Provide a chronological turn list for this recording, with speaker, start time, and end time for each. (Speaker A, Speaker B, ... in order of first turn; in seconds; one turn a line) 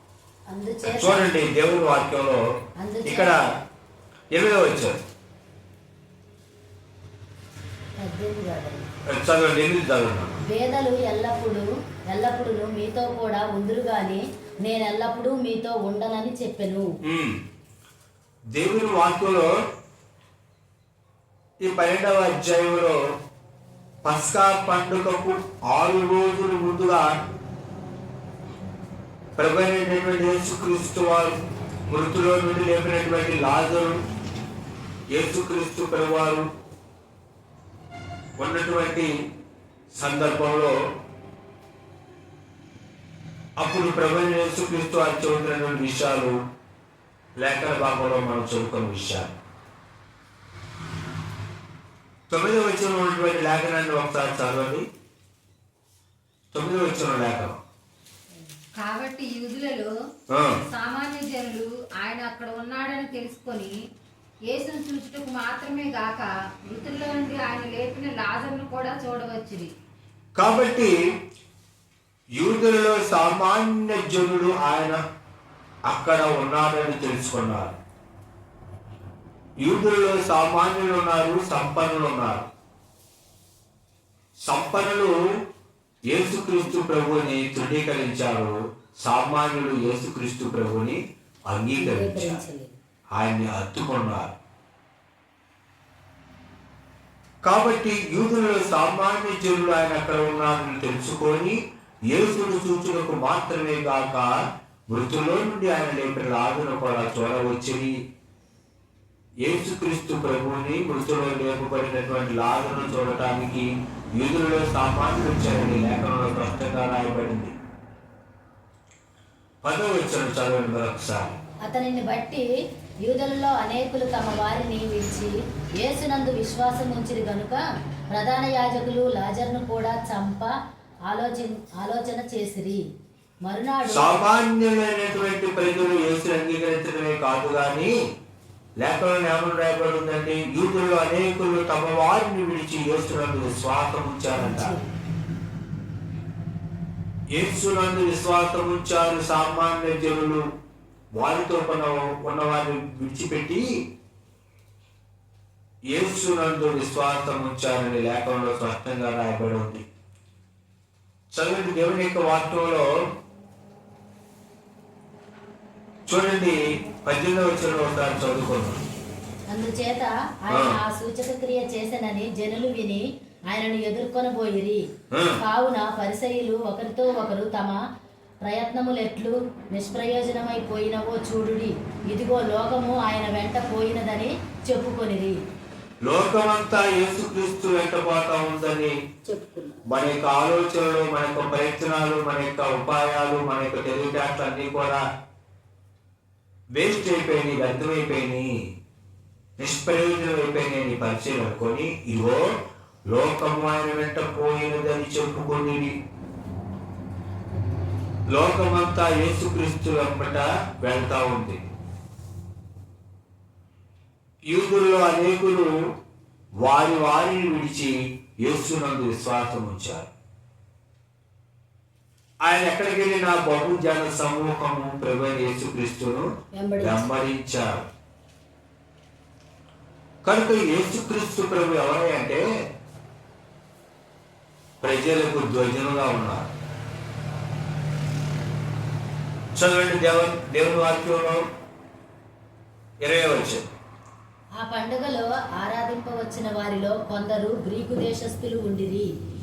Speaker A: 0.5-1.3
Speaker B: 0.8-2.4
Speaker A: 2.8-3.3
Speaker B: 3.0-3.4
Speaker B: 4.3-5.0
Speaker A: 8.0-8.9
Speaker B: 9.1-10.4
Speaker A: 10.4-16.9
Speaker B: 17.0-17.4
Speaker B: 18.5-19.5
Speaker B: 21.6-23.0
Speaker B: 24.0-27.1
Speaker B: 29.4-31.4
Speaker B: 31.9-34.0
Speaker B: 35.1-36.5
Speaker B: 38.4-39.1
Speaker B: 39.9-40.8
Speaker B: 43.6-46.3
Speaker B: 47.4-49.4
Speaker B: 52.3-54.8
Speaker B: 56.5-57.6
Speaker C: 58.8-59.9
Speaker B: 60.3-60.6
Speaker C: 60.6-63.8
Speaker C: 64.5-69.7
Speaker B: 70.3-70.9
Speaker B: 72.3-75.0
Speaker B: 75.8-77.8
Speaker B: 79.6-82.4
Speaker B: 84.4-85.1
Speaker B: 86.1-92.4
Speaker A: 91.8-92.8
Speaker B: 93.1-94.3
Speaker B: 97.4-101.6
Speaker B: 102.1-104.3
Speaker B: 104.9-107.9
Speaker B: 109.4-117.5
Speaker B: 119.6-121.4
Speaker A: 121.7-122.5
Speaker A: 123.1-127.6
Speaker A: 128.1-130.5
Speaker A: 131.1-132.8
Speaker A: 133.4-134.2
Speaker B: 133.9-137.9
Speaker B: 138.8-144.8
Speaker A: 144.3-144.9
Speaker B: 147.3-150.4
Speaker B: 151.2-153.7
Speaker B: 155.9-159.8
Speaker B: 161.3-162.9
Speaker B: 166.1-168.8
Speaker A: 169.5-174.8
Speaker B: 170.5-170.8
Speaker B: 175.1-175.4
Speaker A: 175.4-177.8
Speaker A: 178.4-185.3
Speaker B: 186.0-188.9
Speaker A: 189.2-189.8
Speaker B: 189.9-195.0
Speaker B: 196.7-198.5
Speaker B: 199.6-202.4
Speaker B: 203.1-205.9
Speaker B: 208.3-211.6
Speaker B: 214.5-215.7
Speaker B: 216.6-220.1
Speaker B: 222.4-226.2
Speaker A: 226.6-227.1
Speaker B: 226.8-227.8
Speaker B: 230.2-232.4
Speaker B: 234.8-236.5
Speaker B: 239.6-241.4
Speaker B: 243.0-243.7
Speaker A: 244.6-249.1